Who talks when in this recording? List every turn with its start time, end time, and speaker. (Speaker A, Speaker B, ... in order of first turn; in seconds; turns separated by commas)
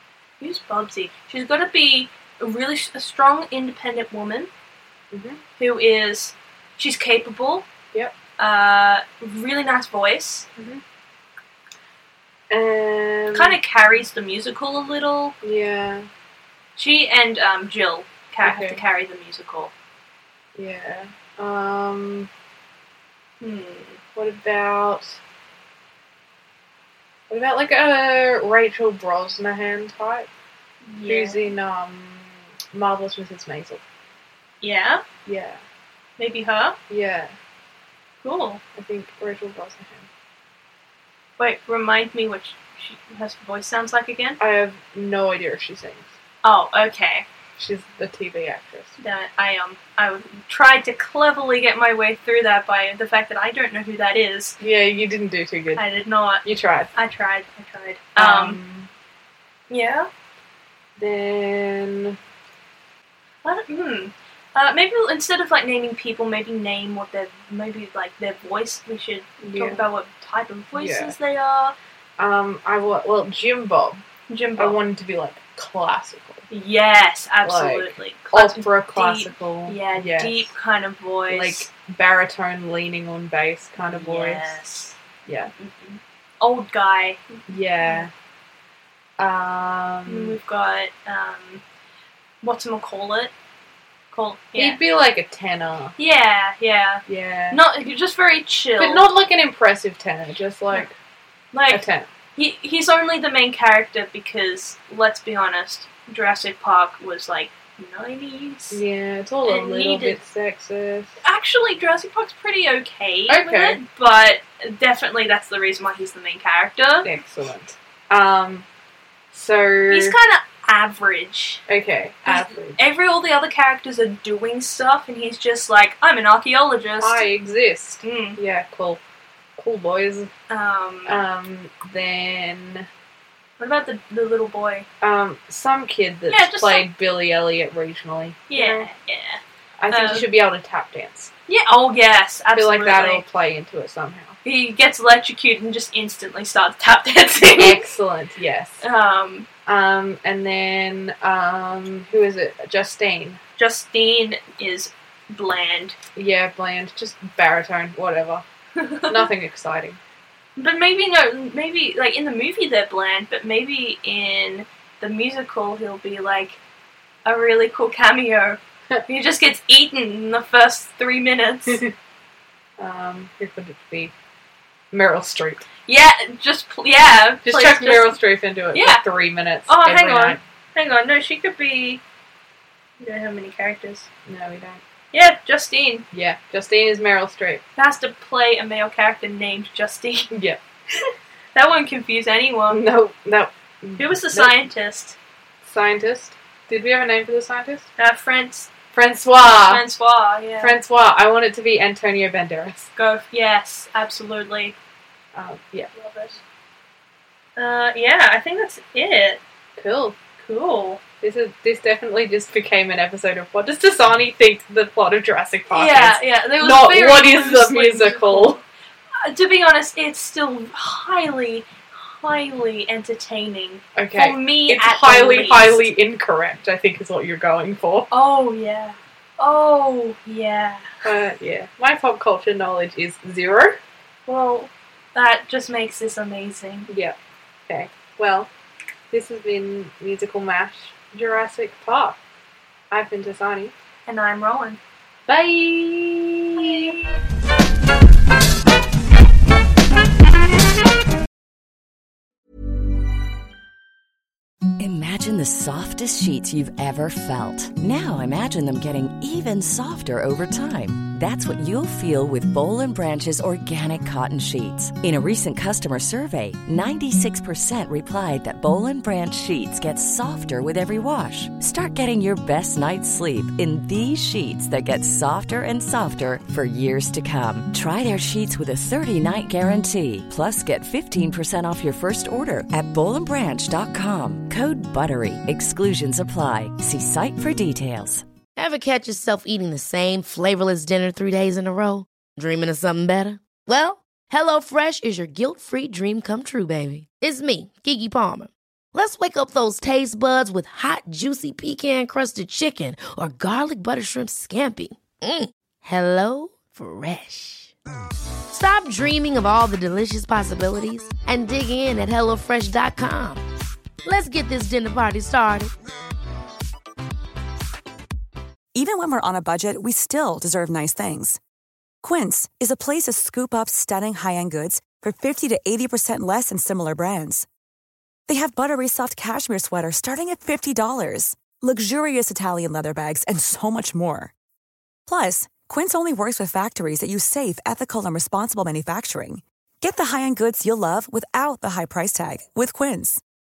Speaker A: 0.4-4.5, Speaker B: 5.1-5.4, Speaker A: 5.6-7.6, Speaker A: 8.4-10.5, Speaker B: 10.6-10.8, Speaker B: 12.5-13.6, Speaker A: 13.3-15.3, Speaker B: 15.4-16.1, Speaker A: 16.8-19.7, Speaker B: 18.4-18.8, Speaker B: 20.5-22.3, Speaker A: 23.4-24.0, Speaker B: 24.1-25.2, Speaker B: 27.3-30.3, Speaker A: 30.8-31.5, Speaker B: 31.1-33.8, Speaker A: 34.6-35.0, Speaker B: 35.2-35.6, Speaker A: 36.2-36.8, Speaker B: 36.9-37.3, Speaker A: 38.2-38.6, Speaker B: 38.7-40.1, Speaker A: 41.4-44.4, Speaker B: 44.4-46.1, Speaker A: 46.4-47.2, Speaker B: 47.6-49.0, Speaker A: 49.0-54.6, Speaker B: 54.6-55.8, Speaker A: 55.7-58.6, Speaker B: 56.4-56.9, Speaker B: 58.1-58.9, Speaker A: 59.7-60.1, Speaker B: 61.0-62.2, Speaker A: 63.4-71.7, Speaker B: 69.4-69.8, Speaker B: 70.7-71.1, Speaker B: 72.2-74.0, Speaker A: 74.3-74.8, Speaker B: 74.5-76.4, Speaker A: 76.5-81.7, Speaker B: 77.4-80.5, Speaker B: 81.3-84.6, Speaker A: 83.8-85.0, Speaker B: 85.2-85.5, Speaker A: 85.6-88.1, Speaker B: 87.5-88.1, Speaker B: 89.2-90.4, Speaker A: 90.0-91.6, Speaker A: 92.4-93.3, Speaker A: 94.1-94.8, Speaker B: 94.5-95.9, Speaker A: 96.0-99.0, Speaker B: 97.1-97.6, Speaker B: 98.8-100.9, Speaker A: 101.5-108.8, Speaker B: 101.7-102.1, Speaker B: 108.7-111.1, Speaker A: 109.4-110.2, Speaker A: 111.2-117.1, Speaker B: 113.3-113.8, Speaker B: 117.0-118.7, Speaker B: 119.3-120.2, Speaker A: 119.9-121.6, Speaker B: 121.7-122.8, Speaker A: 122.2-127.3, Speaker B: 127.0-129.0, Speaker A: 128.0-128.4, Speaker B: 129.6-130.3, Speaker A: 130.5-131.2, Speaker B: 131.1-132.9, Speaker A: 133.6-134.9, Speaker B: 135.0-138.9, Speaker A: 136.3-136.9, Speaker A: 138.5-139.4, Speaker B: 139.8-141.3, Speaker A: 139.9-140.3, Speaker A: 141.5-143.2, Speaker B: 142.5-144.3, Speaker A: 144.4-147.8, Speaker B: 147.5-148.8, Speaker A: 148.8-149.5, Speaker B: 149.7-153.4, Speaker A: 153.6-155.9, Speaker B: 156.2-158.4, Speaker A: 158.8-159.3, Speaker B: 159.1-160.0, Speaker A: 160.6-166.6, Speaker A: 167.2-171.8, Speaker B: 171.7-171.9, Speaker B: 172.8-174.1, Speaker B: 174.9-175.7, Speaker A: 175.9-178.2, Speaker B: 177.4-180.4, Speaker A: 178.7-179.0, Speaker A: 179.7-182.0, Speaker A: 183.0-184.1, Speaker B: 184.2-184.8, Speaker A: 185.1-186.1, Speaker B: 186.1-187.6, Speaker A: 187.8-190.3, Speaker B: 190.3-190.6, Speaker A: 191.5-192.8, Speaker B: 192.7-194.6, Speaker A: 194.0-195.2, Speaker B: 195.6-197.9, Speaker A: 198.0-198.7, Speaker B: 198.9-199.8, Speaker A: 199.5-200.8, Speaker B: 200.6-202.9, Speaker A: 202.9-204.8, Speaker B: 205.3-205.9, Speaker A: 205.9-206.4, Speaker A: 207.6-209.4, Speaker B: 209.8-210.2, Speaker A: 210.4-211.0, Speaker B: 211.2-218.6, Speaker A: 215.7-218.6, Speaker A: 219.2-225.8, Speaker B: 223.9-228.1, Speaker A: 228.1-230.9, Speaker B: 231.0-233.8, Speaker A: 234.3-236.9, Speaker B: 236.9-237.2, Speaker B: 237.7-238.5, Speaker B: 239.1-242.2, Speaker B: 242.9-243.7, Speaker A: 244.1-244.8, Speaker B: 245.3-247.0, Speaker A: 246.5-247.2, Speaker C: 254.8-288.2, Speaker D: 288.6-307.8, Speaker D: 308.5-313.4, Speaker D: 314.0-315.7, Speaker E: 318.7-321.4, Speaker E: 322.0-327.5, Speaker E: 328.3-334.3, Speaker E: 335.1-343.2